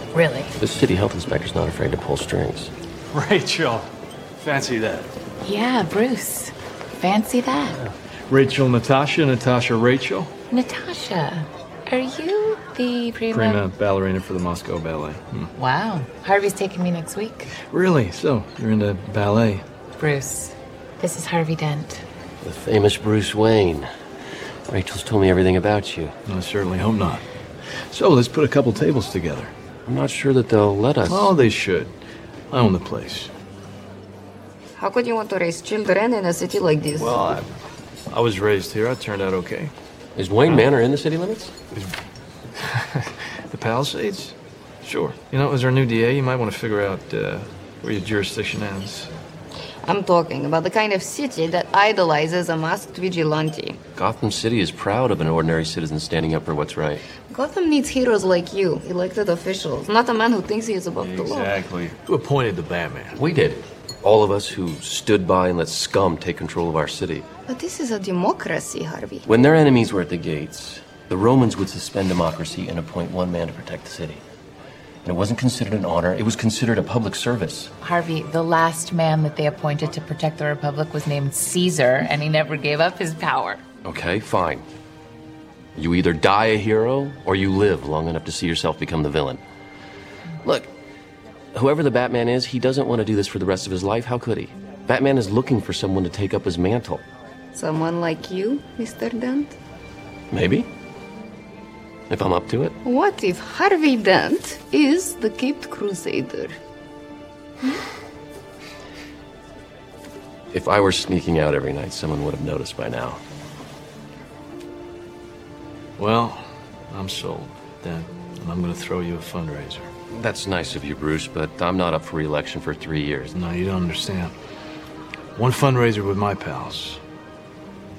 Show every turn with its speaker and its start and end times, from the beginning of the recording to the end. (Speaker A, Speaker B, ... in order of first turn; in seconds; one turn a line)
Speaker A: 0.1-0.6
Speaker B: 0.6-2.7
Speaker C: 3.1-5.1
Speaker A: 5.4-7.8
Speaker C: 8.3-10.3
Speaker A: 10.5-13.6
Speaker C: 13.3-15.5
Speaker A: 15.6-17.5
Speaker C: 17.6-19.6
Speaker A: 20.0-22.0
Speaker B: 22.4-23.9
Speaker B: 24.7-26.1
Speaker C: 26.3-27.2
Speaker C: 27.9-29.5
Speaker B: 29.9-31.3
Speaker C: 31.1-31.9
Speaker C: 32.5-33.3
Speaker D: 34.8-37.2
Speaker C: 37.0-37.5
Speaker C: 38.1-39.7
Speaker B: 40.2-41.5
Speaker C: 42.6-49.1
Speaker D: 49.8-53.8
Speaker B: 54.0-57.0
Speaker D: 57.3-61.6
Speaker C: 61.2-63.2
Speaker B: 63.2-67.3
Speaker D: 67.5-69.3
Speaker B: 69.3-74.2
Speaker B: 75.0-77.7
Speaker A: 77.8-83.6
Speaker B: 83.8-84.7
Speaker B: 85.8-89.4
Speaker B: 90.4-90.7
Speaker B: 91.5-97.0
Speaker D: 97.5-99.5
Speaker B: 100.3-100.7
Speaker B: 102.1-102.8
Speaker D: 102.8-106.6
Speaker B: 110.5-113.2
Speaker C: 116.0-119.9
Speaker B: 120.1-123.4
Speaker C: 123.3-124.3
Speaker C: 125.4-127.0